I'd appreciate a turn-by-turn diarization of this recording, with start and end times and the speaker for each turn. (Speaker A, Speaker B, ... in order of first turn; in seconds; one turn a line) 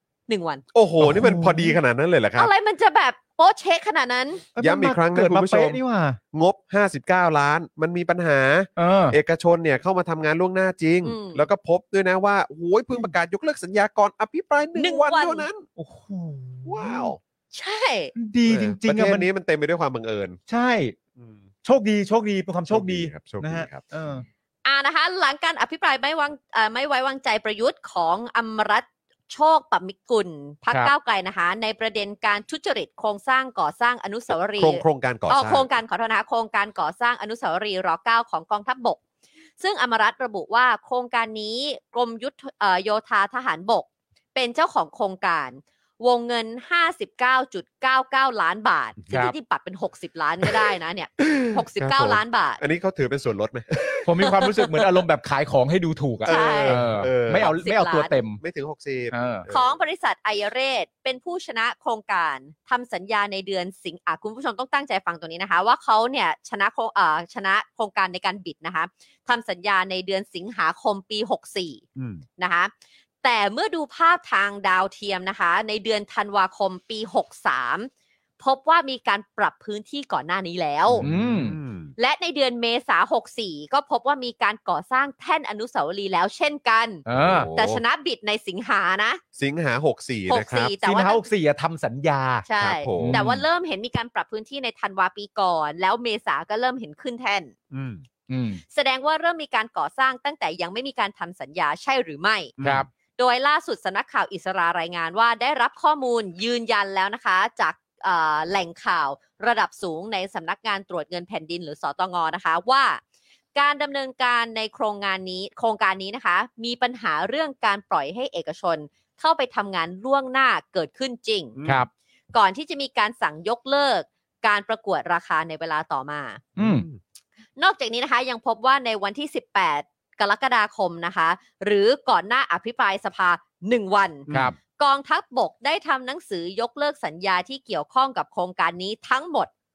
Speaker A: 0.3-0.6
Speaker B: 0.7-2.5
Speaker C: 1.0-1.8
Speaker A: 2.4-4.5
Speaker C: 4.5-6.2
Speaker B: 4.6-5.8
Speaker B: 6.3-15.7
Speaker C: 8.8-9.2
Speaker A: 11.0-11.5
Speaker A: 14.8-15.5
Speaker C: 15.8-17.1
Speaker B: 16.6-17.2
Speaker A: 17.5-18.1
Speaker C: 18.1-19.3
Speaker B: 18.5-20.4
Speaker C: 20.5-20.9
Speaker C: 21.6-24.2
Speaker B: 22.7-23.8
Speaker A: 24.6-39.0
Speaker B: 34.4-35.7
Speaker A: 39.6-52.6
Speaker B: 51.2-54.4
Speaker C: 54.0-58.4
Speaker A: 54.2-54.9
Speaker B: 56.2-57.5
Speaker A: 56.2-58.2
Speaker B: 58.4-59.7
Speaker C: 59.1-59.5
Speaker A: 59.5-71.8
Speaker B: 72.0-72.2
Speaker A: 72.4-72.7
Speaker A: 73.2-77.9
Speaker A: 78.4-81.0
Speaker B: 80.9-81.9
Speaker C: 81.0-81.6
Speaker A: 82.0-87.0
Speaker C: 87.1-87.5
Speaker B: 87.1-87.8
Speaker A: 87.5-89.2
Speaker B: 89.3-90.7
Speaker A: 90.3-91.2
Speaker C: 90.8-92.5
Speaker A: 92.5-97.5
Speaker B: 92.6-93.4
Speaker C: 93.0-93.4
Speaker B: 97.7-98.0
Speaker C: 98.3-98.6
Speaker A: 98.7-102.5
Speaker B: 102.6-102.9
Speaker C: 102.6-102.9
Speaker A: 103.2-113.0
Speaker A: 113.5-121.5
Speaker B: 121.5-121.8
Speaker A: 122.3-126.5
Speaker B: 126.6-127.0
Speaker C: 126.6-126.8
Speaker A: 127.6-139.5
Speaker B: 134.3-134.5
Speaker C: 134.3-134.5